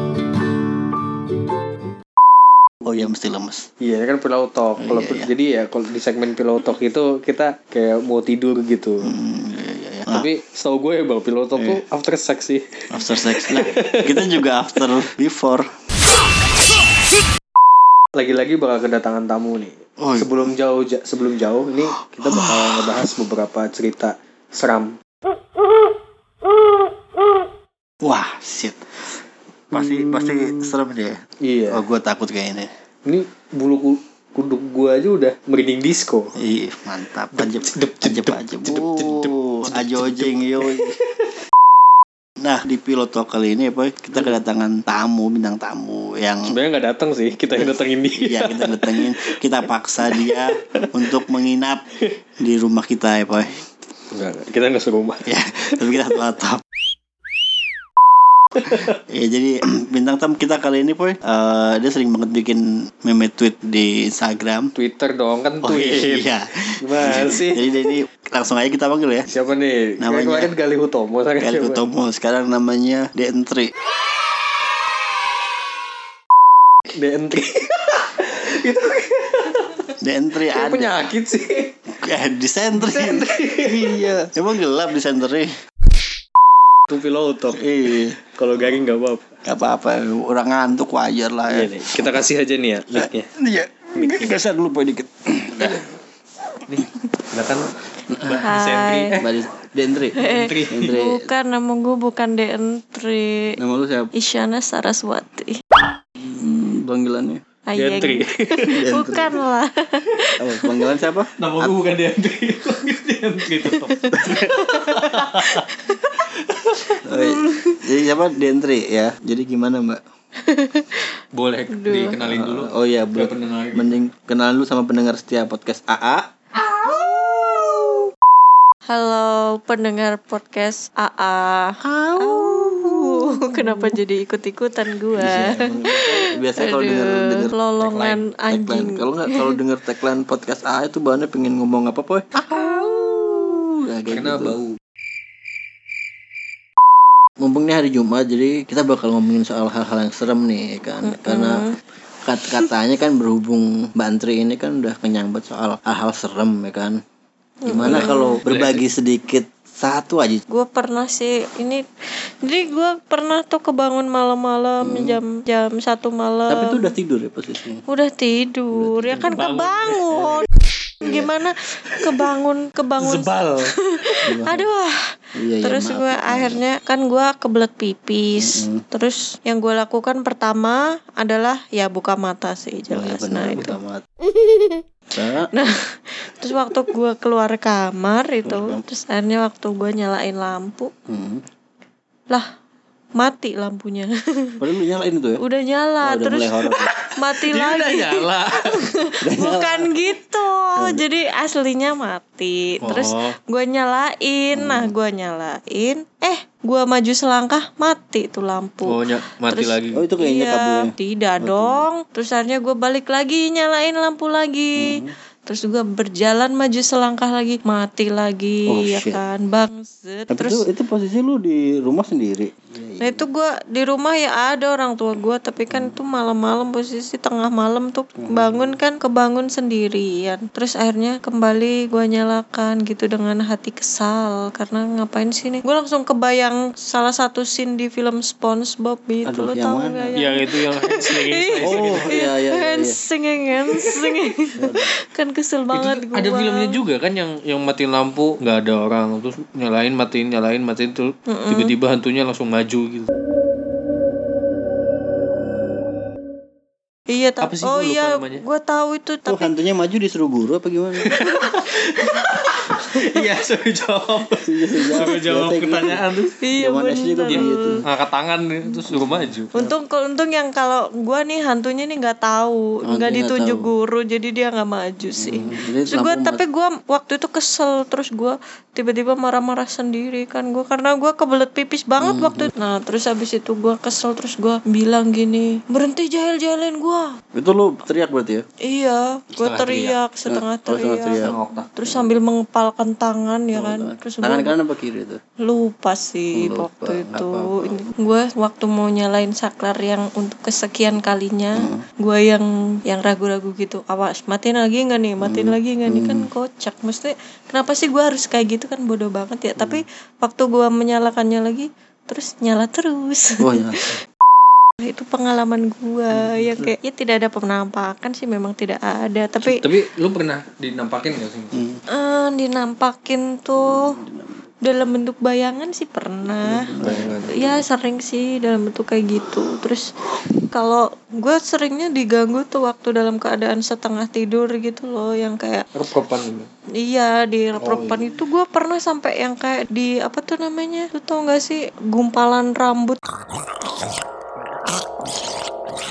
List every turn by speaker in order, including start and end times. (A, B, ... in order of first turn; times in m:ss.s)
0:02.8-0:03.7 A
0:03.8-0:09.1 B
0:04.8-0:05.3 A
0:09.0-0:10.3 A
0:10.1-0:14.9 B
0:11.6-0:11.8 A
0:12.9-0:15.7 A
0:18.2-0:25.0 B
0:20.0-0:20.5 A
0:22.2-0:23.1 A
0:28.0-0:29.2 A
0:29.7-0:32.7 A
0:29.7-0:30.7 B
0:31.4-0:31.8 B
0:33.1-0:36.4 B
0:36.4-0:41.0 A
0:37.3-0:41.4 B
0:42.4-0:46.6 A
0:46.5-0:49.4 B
0:47.6-0:51.8 A
0:50.1-0:51.3 B
0:52.4-0:53.7 A
0:54.1-0:55.3 B
0:55.3-0:56.6 A
0:55.8-0:56.2 B
0:58.6-0:58.9 B
0:58.6-1:04.7 A
1:04.8-1:07.7 B
1:05.6-1:09.3 A
1:09.3-1:11.8 B
1:10.0-1:10.5 A
1:11.4-1:13.7 A
1:17.0-1:19.9 B
1:20.0-1:21.2 A
1:20.5-1:21.7 B
1:21.9-1:25.5 A
1:22.8-1:23.9 B
1:26.9-1:29.2 B
1:27.5-1:28.2 A
1:29.4-1:32.1 A
1:31.5-1:33.3 B
1:32.9-1:35.8 A
1:33.9-1:34.4 B
1:35.6-1:35.9 B
1:36.7-1:39.3 B
1:38.1-1:38.5 A
1:38.4-1:39.2 C
1:39.1-1:41.3 A
1:40.2-1:41.0 B
1:40.2-1:43.6 C
1:43.6-1:44.1 A
1:44.2-1:45.6 C
1:46.2-1:47.4 A
1:47.7-1:50.9 C
1:47.8-1:48.8 B
1:48.7-1:49.4 A
1:50.4-1:51.8 A
1:51.4-1:57.0 B
1:53.6-1:56.2 C
1:54.2-1:54.5 A
1:57.0-2:00.0 A
1:57.1-1:57.8 C
2:00.4-2:01.1 C
2:01.3-2:03.9 B
2:01.7-2:02.2 C
2:02.2-2:08.1 A
2:08.9-2:19.6 C
2:11.8-2:14.0 A
2:15.1-2:17.5 A
2:17.8-2:18.2 B
2:18.5-2:24.6 A
2:22.5-2:23.1 C
2:24.1-2:24.8 B
2:27.4-2:31.7 A
2:31.0-2:31.8 C
2:32.2-2:37.0 A
2:32.5-2:32.7 C
2:37.6-2:38.4 C
2:37.7-2:40.4 A
2:37.7-2:38.8 B
2:40.5-2:41.8 C
2:42.4-2:47.0 C
2:44.8-2:45.2 A
2:46.5-2:47.8 A
2:47.9-2:50.5 C
2:48.7-2:49.4 A
2:49.2-2:50.5 B
2:51.0-2:55.0 C
2:51.0-2:51.3 A
2:51.9-2:52.2 B
2:53.0-2:53.8 B
2:54.2-2:54.7 A
2:55.4-2:56.6 A
2:55.6-3:03.8 C
2:58.4-2:58.8 A
3:02.9-3:04.0 A
3:04.3-3:04.8 C
3:05.1-3:05.5 A
3:05.5-3:10.9 C
3:08.4-3:08.8 A
3:11.1-3:11.4 A
3:13.2-3:14.6 C
3:14.6-3:15.4 A
3:15.4-3:40.7 C
3:16.0-3:16.9 A
3:16.7-3:18.9 B
3:19.2-3:20.0 A
3:20.8-3:21.0 A
3:22.8-3:23.4 B
3:24.5-3:24.9 A
3:28.8-3:30.1 B
3:29.9-3:31.9 A
3:34.8-3:35.1 A
3:38.7-3:39.2 A
3:40.3-3:43.3 A
3:43.0-4:06.8 C
3:48.2-3:48.8 A
3:59.2-4:00.2 A
4:00.2-4:02.2 B
4:01.6-4:03.0 A
4:04.5-4:04.9 A
4:05.7-4:13.1 B
4:11.3-4:11.7 C
4:17.1-4:19.5 C
4:17.4-4:18.4 B
4:19.3-4:21.1 A
4:21.1-4:26.4 B
4:24.4-4:26.0 A
4:26.4-4:27.8 C
4:26.6-4:27.8 A
4:27.3-4:29.5 B
4:28.9-4:29.7 A
4:29.5-4:47.0 C
4:32.9-4:33.7 A
4:35.1-4:36.4 A
4:42.0-4:42.5 A
4:47.3-4:48.4 A
4:48.6-4:54.6 C
4:49.4-4:50.0 B
4:50.3-4:52.2 A
4:51.2-4:51.7 B
4:53.5-4:55.2 A
4:55.4-5:14.0 C
4:56.3-4:57.9 A
5:01.6-5:01.8 A
5:05.2-5:06.3 A
5:09.6-5:09.8 A
5:13.4-5:13.8 A
5:14.8-5:19.6 C
5:16.1-5:16.7 A
5:19.4-5:21.6 B
5:21.5-5:21.8 A
5:21.9-5:24.0 C
5:23.6-5:24.5 A
5:24.6-5:26.8 C
5:26.3-5:27.6 A
5:26.8-5:27.6 B
5:27.3-5:29.9 C
5:30.5-5:35.7 C
5:35.7-5:36.5 B
5:36.8-5:43.0 C
5:37.6-5:38.2 B